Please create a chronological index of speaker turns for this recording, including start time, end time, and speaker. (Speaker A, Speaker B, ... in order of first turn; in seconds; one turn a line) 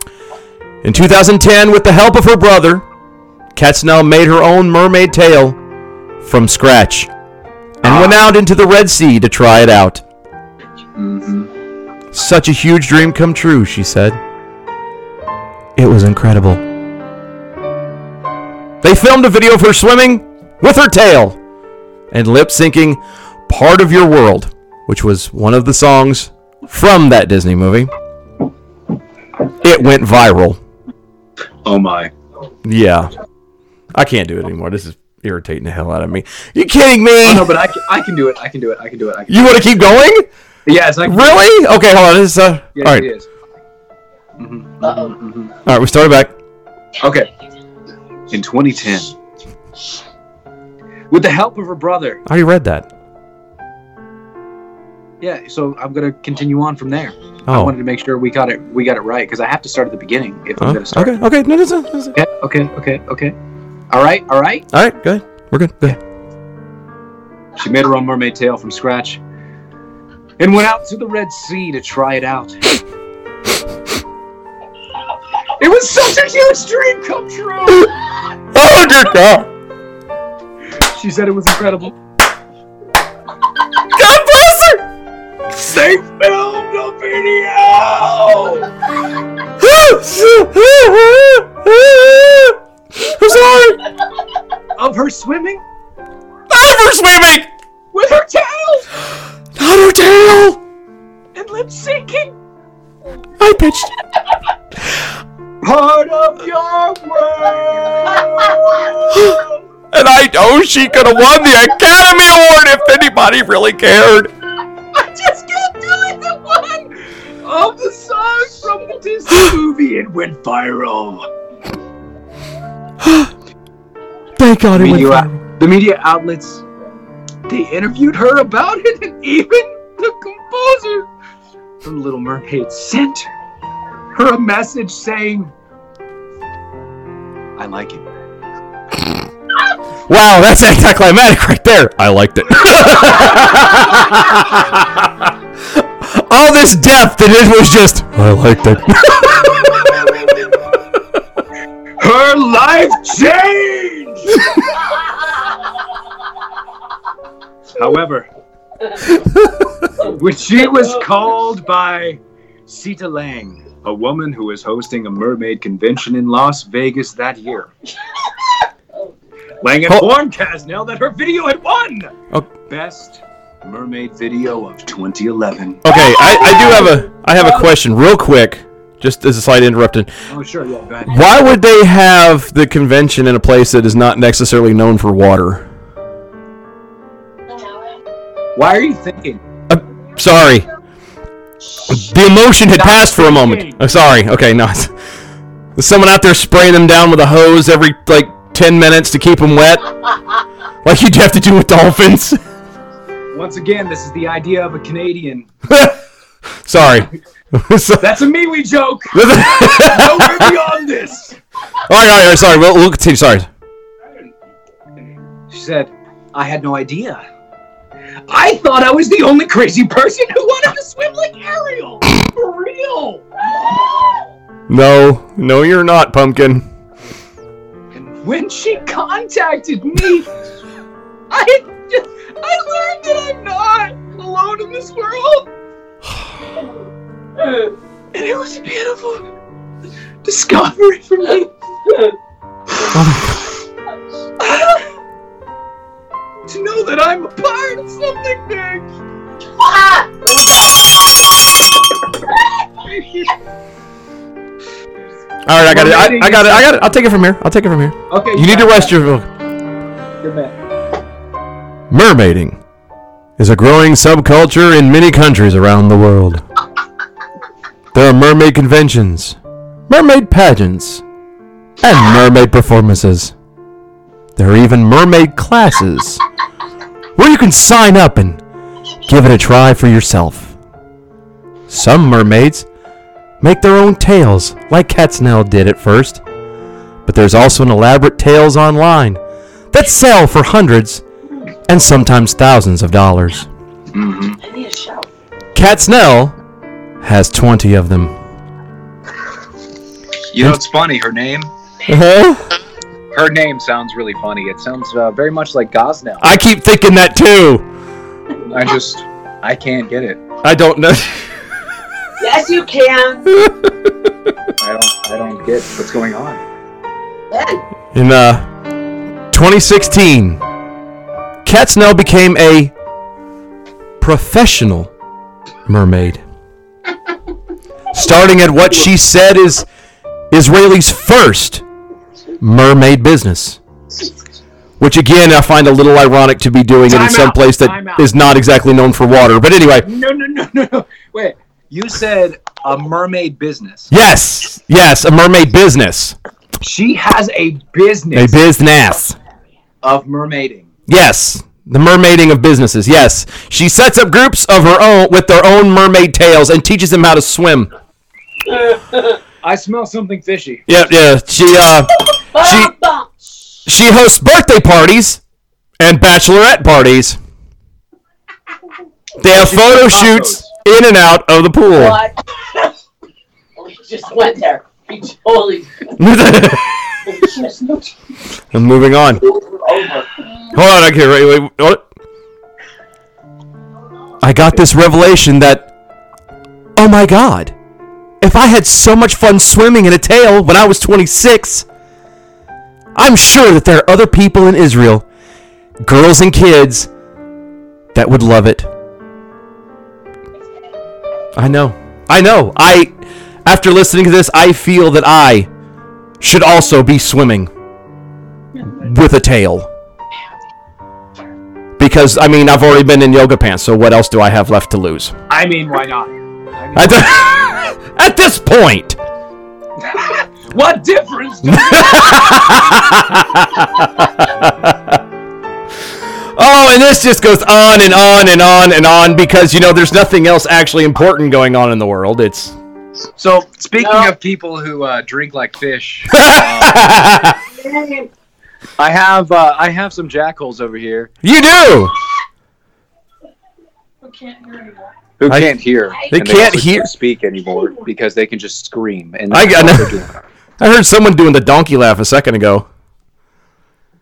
Speaker A: 0.8-2.8
Speaker A: 3.5-5.6
Speaker A: 6.2-7.1
Speaker A: 7.8-10.0
Speaker B: 7.8-8.2
Speaker B: 10.9-11.5
Speaker A: 12.1-14.2
Speaker A: 15.8-16.6
Speaker A: 18.8-21.4
Speaker A: 22.1-27.9
Speaker A: 29.6-30.6
Speaker B: 31.6-32.1
Speaker A: 32.6-33.1
Speaker A: 33.9-37.6
Speaker B: 37.2-39.7
Speaker A: 39.3-40.3
Speaker B: 40.6-41.5
Speaker A: 41.0-43.1
Speaker B: 42.8-43.3
Speaker B: 44.4-45.5
Speaker A: 45.6-46.3
Speaker B: 47.0-47.3
Speaker B: 48.3-49.1
Speaker B: 51.1-52.2
Speaker A: 52.2-52.9
Speaker B: 55.2-61.2
Speaker A: 57.5-57.7
Speaker A: 60.6-62.1
Speaker B: 62.1-63.3
Speaker B: 63.9-64.7
Speaker A: 64.7-66.0
Speaker B: 67.5-69.2
Speaker B: 70.4-72.6
Speaker B: 75.6-77.9
Speaker A: 78.5-79.5
Speaker B: 80.9-81.9
Speaker A: 83.9-84.8
Speaker B: 85.5-88.7
Speaker A: 89.6-93.8
Speaker B: 94.8-95.6
Speaker A: 96.5-97.5
Speaker B: 97.9-98.9
Speaker A: 99.5-100.6
Speaker B: 101.3-102.3
Speaker A: 103.4-103.9
Speaker B: 105.6-109.6
Speaker A: 109.9-114.3
Speaker B: 115.0-116.8
Speaker B: 117.4-121.3
Speaker A: 123.0-123.3
Speaker A: 124.4-125.4
Speaker B: 124.7-126.6
Speaker B: 127.5-131.1
Speaker B: 131.8-133.3
Speaker B: 134.1-135.5
Speaker B: 137.6-138.0
Speaker A: 140.1-145.3
Speaker A: 145.8-149.7
Speaker B: 152.0-154.4
Speaker B: 157.8-158.3
Speaker B: 159.9-167.7
Speaker B: 169.6-172.1
Speaker A: 169.8-170.1
Speaker B: 172.7-175.8
Speaker A: 175.8-180.1
Speaker B: 176.5-176.8
Speaker B: 177.3-177.7
Speaker B: 180.3-181.3
Speaker A: 181.1-185.7
Speaker B: 188.5-189.4
Speaker A: 189.7-190.7
Speaker A: 191.9-194.9
Speaker B: 192.7-193.8
Speaker A: 195.8-199.9
Speaker A: 200.8-202.4
Speaker B: 203.3-205.5
Speaker A: 205.7-206.0
Speaker A: 206.7-208.2
Speaker B: 208.0-211.3
Speaker A: 209.1-210.5
Speaker A: 211.8-213.5
Speaker B: 215.5-217.2
Speaker B: 218.3-223.2
Speaker A: 224.7-226.6
Speaker B: 227.9-230.3
Speaker B: 231.3-235.5
Speaker B: 238.1-239.2
Speaker B: 240.2-241.5
Speaker A: 242.9-243.4
Speaker B: 244.4-244.8
Speaker B: 246.4-248.8
Speaker C: 249.6-251.4
Speaker A: 255.4-259.3
Speaker B: 255.6-256.7
Speaker B: 258.1-259.0
Speaker B: 260.2-260.5
Speaker A: 261.9-262.6
Speaker A: 263.4-266.4
Speaker A: 267.9-269.4
Speaker A: 269.9-271.0
Speaker A: 271.8-273.3
Speaker A: 274.4-276.2
Speaker A: 277.1-278.4
Speaker A: 279.1-280.6
Speaker A: 281.7-282.6
Speaker A: 283.4-286.2
Speaker A: 287.1-289.2
Speaker A: 289.7-291.0
Speaker A: 291.7-293.5
Speaker B: 293.9-294.4
Speaker C: 294.4-295.1
Speaker A: 295.5-296.4
Speaker A: 297.0-298.1
Speaker B: 300.3-301.5
Speaker A: 301.9-302.4
Speaker B: 303.1-306.3
Speaker A: 306.2-307.6
Speaker B: 308.5-310.2
Speaker A: 310.4-311.2
Speaker C: 312.2-313.3
Speaker B: 314.6-316.4
Speaker C: 317.3-317.6
Speaker A: 317.9-318.4
Speaker A: 319.3-320.4
Speaker A: 321.4-322.7
Speaker A: 324.0-324.9
Speaker A: 325.6-326.2
Speaker A: 327.9-329.6
Speaker A: 330.3-331.6
Speaker A: 332.4-333.6
Speaker A: 334.8-339.9
Speaker B: 336.9-338.2
Speaker B: 339.8-343.9
Speaker A: 343.9-346.1
Speaker B: 346.6-348.4
Speaker A: 348.1-349.2
Speaker B: 349.8-350.7
Speaker A: 350.9-357.7
Speaker C: 358.5-359.1
Speaker B: 359.4-360.6
Speaker A: 360.7-362.7
Speaker C: 362.3-363.6
Speaker A: 363.6-365.2
Speaker A: 365.8-367.2
Speaker A: 369.2-372.0
Speaker B: 369.2-370.5
Speaker C: 371.7-372.7
Speaker C: 373.6-375.9
Speaker A: 376.0-376.6
Speaker C: 377.1-377.9
Speaker A: 378.5-379.2
Speaker C: 379.7-380.0
Speaker A: 380.5-381.8
Speaker A: 384.2-385.7
Speaker A: 386.8-387.5
Speaker A: 388.2-391.6
Speaker A: 392.9-395.0
Speaker A: 395.8-396.9
Speaker A: 397.9-398.7
Speaker A: 401.4-402.9
Speaker A: 403.4-405.5
Speaker A: 406.2-407.5
Speaker A: 408.8-409.7
Speaker A: 411.8-415.1
Speaker B: 415.3-417.3
Speaker A: 416.7-419.0
Speaker B: 419.8-422.6
Speaker A: 421.4-425.0
Speaker A: 426.4-432.5
Speaker B: 433.2-437.1
Speaker C: 433.8-434.1
Speaker A: 436.1-437.4
Speaker C: 437.5-438.1
Speaker B: 438.8-441.1
Speaker A: 441.2-441.9
Speaker B: 445.2-450.2
Speaker A: 445.3-446.9
Speaker A: 449.3-450.0
Speaker A: 450.6-452.6